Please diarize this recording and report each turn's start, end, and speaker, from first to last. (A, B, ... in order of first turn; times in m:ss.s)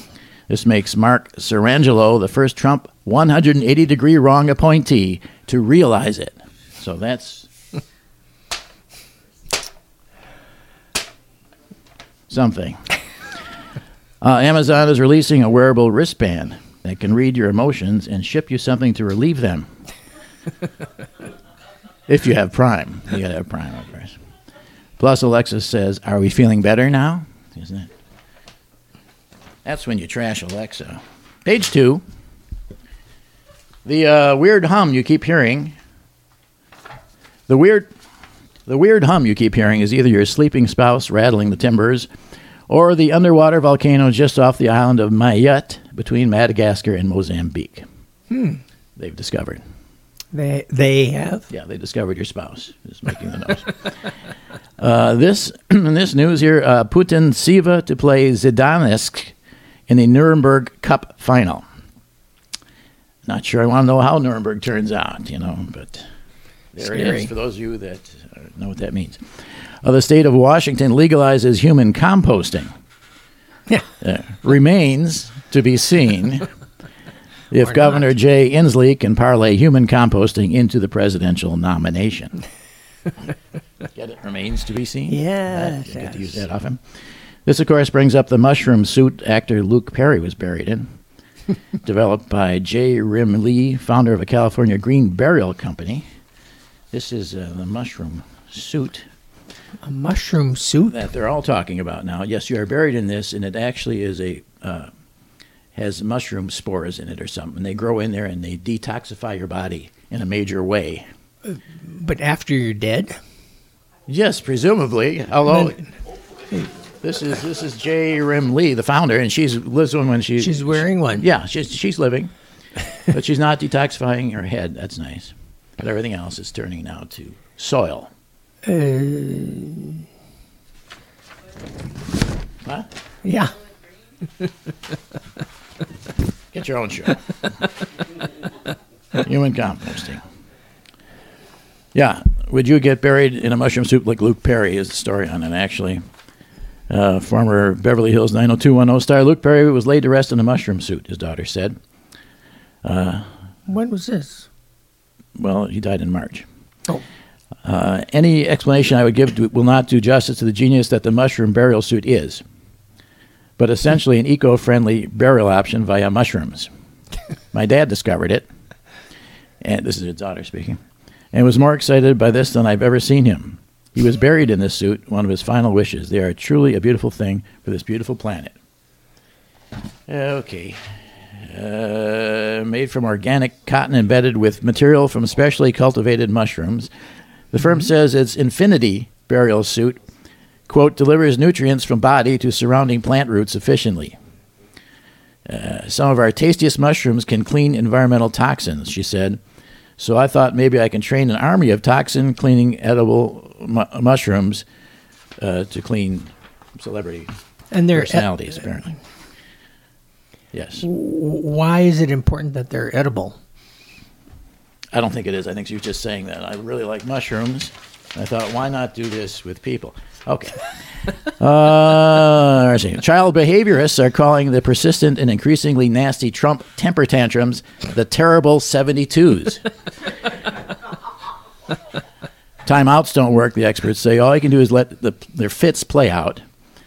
0:00.5-0:07.5 A
0:12.3-0:12.8 A
0:14.2-0:19.7 A
0:22.1-0:24.2 A
0:25.0-0:27.9 A
0:29.6-0:32.0 A
0:33.8-0:35.8 A
0:37.5-0:37.9 A
0:38.7-0:42.1 A
0:42.7-0:47.8 A
0:48.3-0:48.6 B
0:49.0-0:49.6 A
0:50.3-0:51.5 B
0:51.5-0:54.0 A
0:54.8-0:59.3 A
0:59.9-1:01.6 A
1:03.3-1:06.0 A
1:06.8-1:09.2 A
1:06.8-1:07.3 B
1:09.8-1:12.7 A
1:14.0-1:16.5 A
1:17.5-1:22.4 A
1:23.9-1:26.8 A
1:25.1-1:26.4 B
1:27.5-1:30.9 A
1:31.8-1:36.0 A
1:36.9-1:39.1 A
1:39.8-1:41.0 B
1:40.9-1:44.9 A
1:45.8-1:51.0 A
1:51.5-1:53.1 B
1:54.1-1:55.8 A
1:57.0-2:02.3 A
2:00.4-2:01.3 B
2:03.1-2:08.1 A
2:08.6-2:10.0 B
2:13.2-2:13.6 B
2:16.5-2:17.4 A
2:19.2-2:20.2 A
2:21.9-2:26.0 A
2:26.9-2:31.8 A
2:32.8-2:33.3 A
2:33.7-2:34.5 B
2:35.4-2:36.5 A
2:37.6-2:42.4 A
2:43.6-2:46.7 A
2:47.5-2:48.5 A
2:49.6-2:50.8 A
2:51.3-2:58.6 A
3:00.1-3:00.8 A
3:01.4-3:06.9 A
3:07.5-3:10.0 A
3:10.7-3:14.2 A
3:15.5-3:19.4 A
3:20.0-3:24.7 A
3:25.4-3:27.3 A
3:27.7-3:28.3 B
3:27.9-3:29.0 A
3:30.5-3:30.9 A
3:30.8-3:33.4 B
3:34.9-3:40.7 A
3:41.3-3:49.7 A
3:52.6-3:56.4 A